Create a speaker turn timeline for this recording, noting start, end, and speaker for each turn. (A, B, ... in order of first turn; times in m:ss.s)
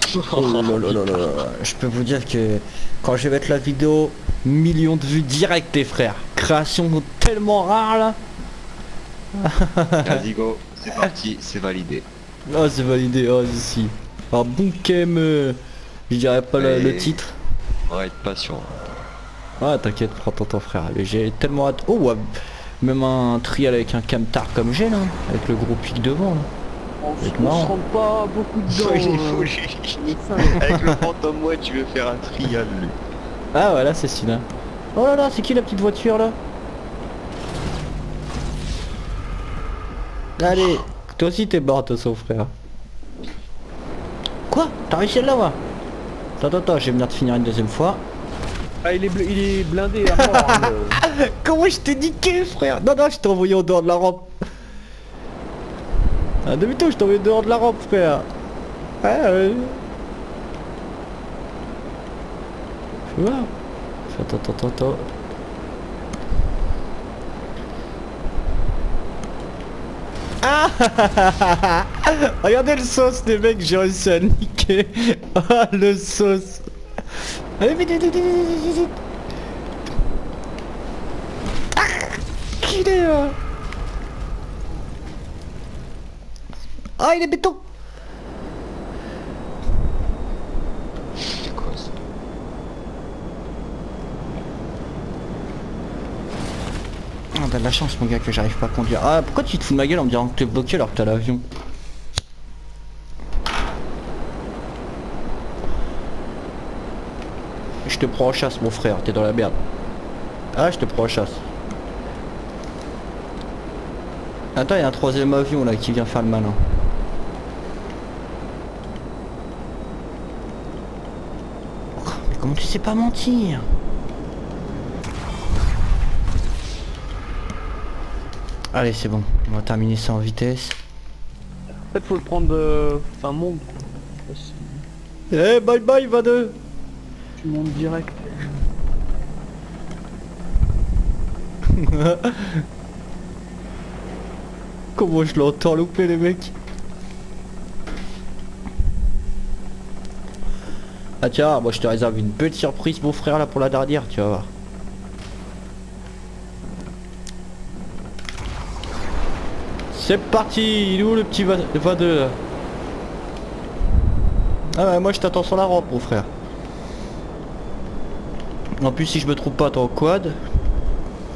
0:00.3-0:08.2 A
0:00.6-0:01.2 B
0:09.4-0:10.2 A
0:10.0-0:12.1 B
0:12.5-0:15.6 A
0:16.1-0:17.3 A
0:16.6-0:17.2 B
0:17.9-0:18.8 B
0:19.6-0:22.3 A
0:22.8-0:26.5 A
0:27.0-0:30.7 C
0:27.2-0:27.7 A
0:28.7-0:33.0 B
0:30.7-0:31.0 A
0:33.5-0:36.4 A
0:40.4-0:42.5 A
0:44.5-0:45.6 A
0:46.4-0:48.0 A
0:48.8-0:51.0 C
0:50.1-0:54.3 A
0:56.4-0:58.3 A
0:59.0-0:59.8 A
1:03.1-1:03.5 A
1:04.1-1:05.1 A
1:10.4-1:16.7 A
1:17.6-1:19.0 A
1:21.8-1:23.4 A
1:27.0-1:27.6 A
1:31.2-1:31.9 B
1:37.4-1:41.4 A
1:47.8-1:49.6 A
1:50.5-1:51.4 A
1:54.6-1:56.6 A
2:02.0-2:03.7 A
2:08.7-2:10.8 A
2:11.9-2:14.9 C
2:15.3-2:16.6 A
2:17.4-2:18.6 C
2:21.7-2:22.6 A
2:25.0-2:26.5 A
2:31.2-2:34.5 A
2:39.9-2:42.4 A
2:44.8-2:46.3 A
2:48.8-2:50.4 A